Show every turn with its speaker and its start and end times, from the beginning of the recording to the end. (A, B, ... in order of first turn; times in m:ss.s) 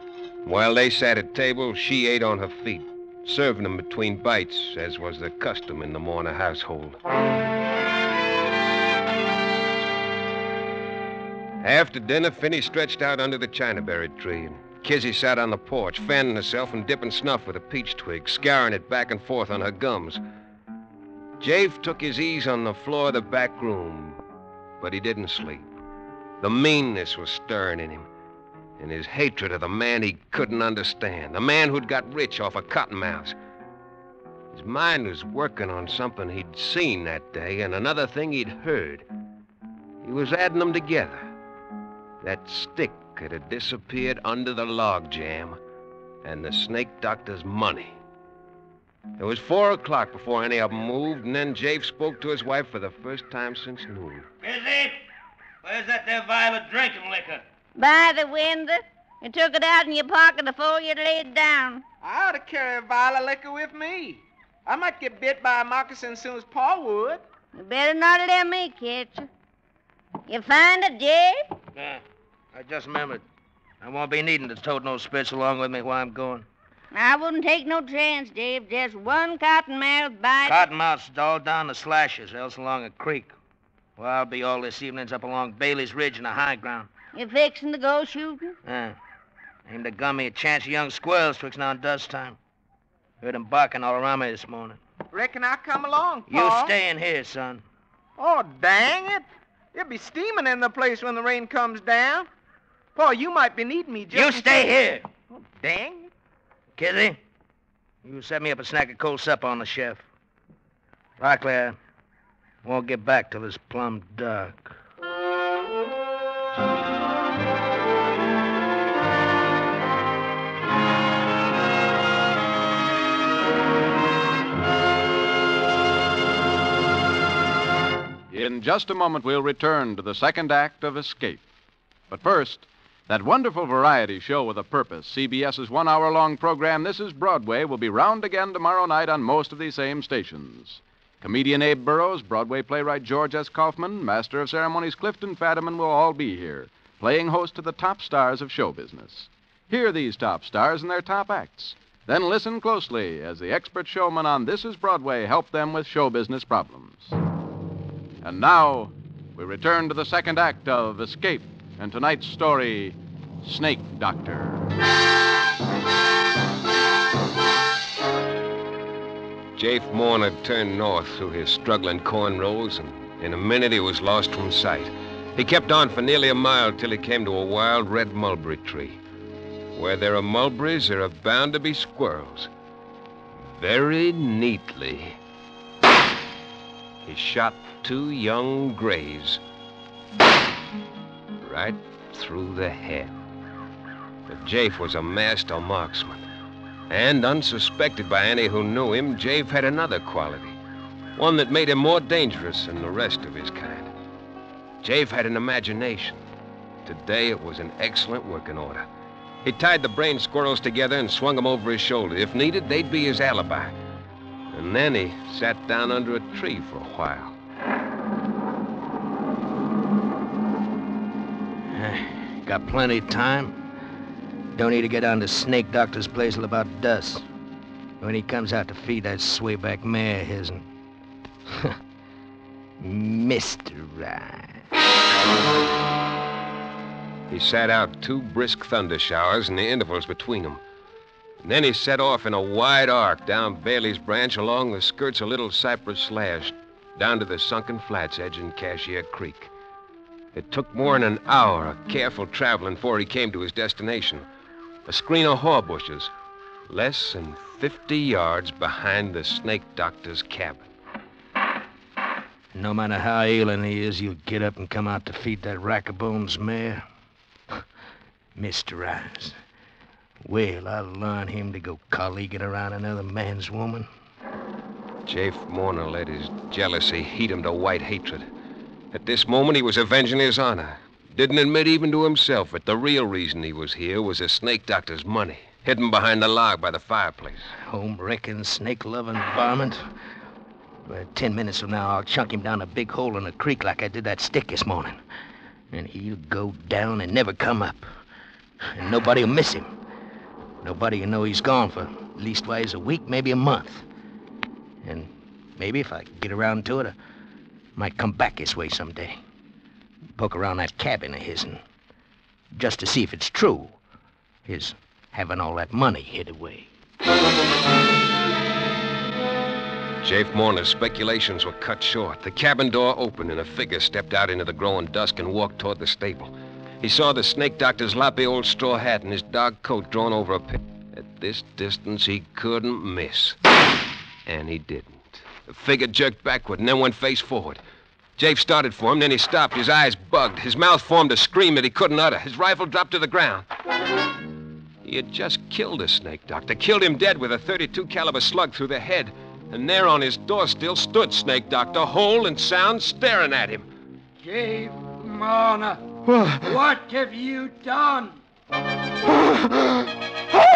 0:00.4-0:07.0 A
0:11.6-0:20.2 A
0:21.4-0:24.2 A
0:24.8-0:25.7 A
0:26.4-0:28.1 A
0:28.8-0:33.4 A
0:34.5-0:39.1 A
0:40.0-0:41.3 A
0:42.2-0:45.6 A
0:46.2-0:48.0 A
0:49.2-0:54.3 A
0:54.4-0:55.0 B
0:55.6-0:57.4 B
0:57.8-1:01.8 C
1:02.0-1:07.2 D
1:07.5-1:09.3 C
1:10.3-1:11.4 C
1:11.8-1:12.0 B
1:12.5-1:13.2 B
1:13.8-1:16.5 B
1:16.9-1:20.6 C
1:20.4-1:23.3 B
1:24.0-1:26.9 B
1:27.1-1:28.6 C
1:28.6-1:29.0 B
1:29.7-1:32.4 B
1:33.2-1:34.8 B
1:35.1-1:36.7 D
1:36.3-1:37.6 B
1:38.2-1:42.3 D
1:43.0-1:44.7 D
1:44.1-1:45.1 B
1:45.3-1:46.1 D
1:46.8-1:47.2 B
1:48.0-1:50.0 B
1:51.2-1:51.8 B
1:52.6-1:54.8 B
2:08.3-2:11.4 E
2:12.1-2:37.2 E
2:38.2-2:44.7 E
2:49.6-2:59.0 A
2:59.8-3:02.5 A
3:03.4-3:05.2 A
3:07.0-3:09.4 A
3:11.4-3:13.1 A
3:14.3-3:16.2 A
3:16.9-3:20.6 A
3:21.2-3:23.9 A
3:24.8-3:26.2 A
3:26.8-3:28.9 A
3:29.4-3:33.8 A
3:34.5-3:37.4 A
3:41.7-3:43.6 B
3:44.6-3:47.2 B
3:48.0-3:50.7 B
3:51.5-3:51.7 B
3:52.8-3:54.7 B
3:57.3-4:00.6 A
4:01.4-4:09.5 A
4:10.3-4:14.3 A
4:14.9-4:16.1 A
4:16.7-4:20.7 A
4:22.5-4:26.8 B
4:28.4-4:29.4 B
4:30.2-4:33.9 B
4:35.1-4:38.3 A
4:38.9-4:47.5 A
4:47.6-4:49.9 B
4:50.9-4:55.0 B
4:55.7-4:57.9 B
4:58.7-4:59.7 B
5:00.6-5:03.9 B
5:04.8-5:07.0 B
5:07.8-5:09.2 B
5:10.2-5:11.6 B
5:12.5-5:13.8 B
5:14.4-5:16.7 B
5:20.0-5:33.4 A
5:34.3-5:37.6 A
5:38.2-5:43.5 A
5:44.8-5:53.7 A
5:54.2-5:58.2 F